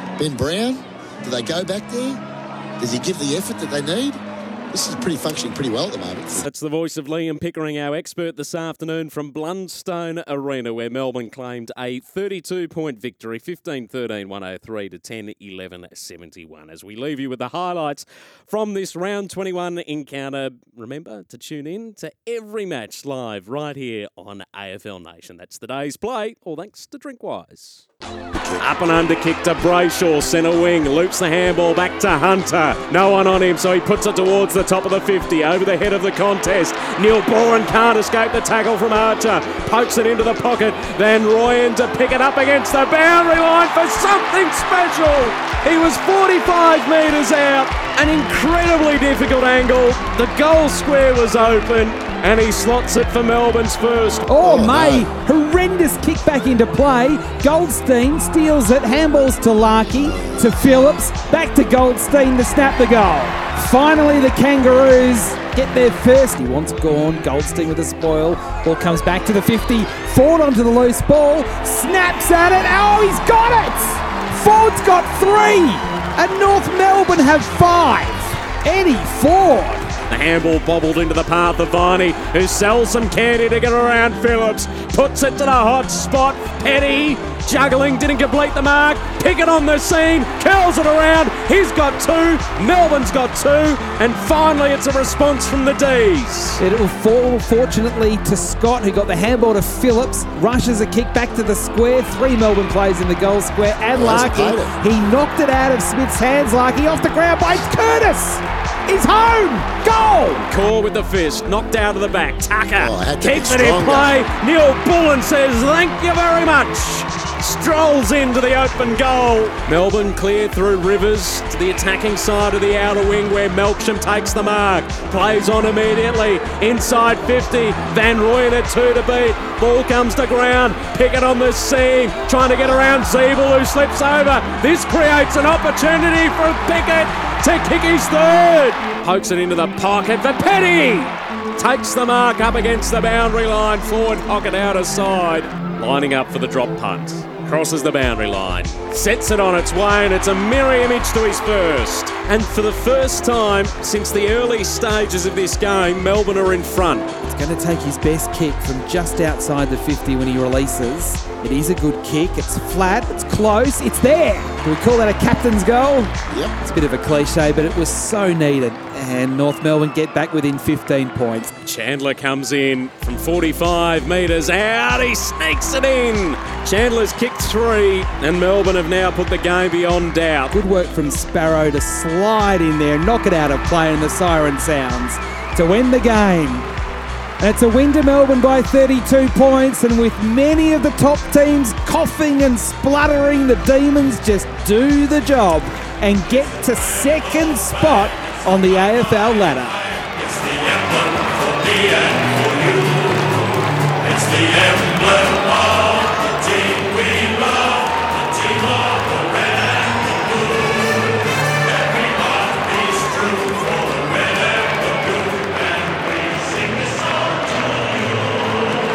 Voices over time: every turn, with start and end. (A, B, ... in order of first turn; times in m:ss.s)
0:00.2-0:02.2 A
0:02.8-0:06.5 A
0:06.4-0:27.8 B
0:28.3-0:28.7 A
0:28.6-0:54.3 B
0:54.3-1:19.9 C
0:54.4-0:55.1 A
1:00.0-1:00.5 A
1:20.1-1:36.6 B
1:36.6-1:50.4 C
1:43.9-1:44.7 A
1:50.4-2:37.1 B
1:52.8-1:54.2 A
2:37.2-2:51.5 C
2:46.3-2:46.6 A
2:51.6-3:00.5 B
3:00.5-3:06.7 C
3:07.4-3:19.8 C
3:21.1-3:22.9 B
3:24.1-3:27.6 B
3:28.8-3:29.6 B
3:32.3-3:37.7 B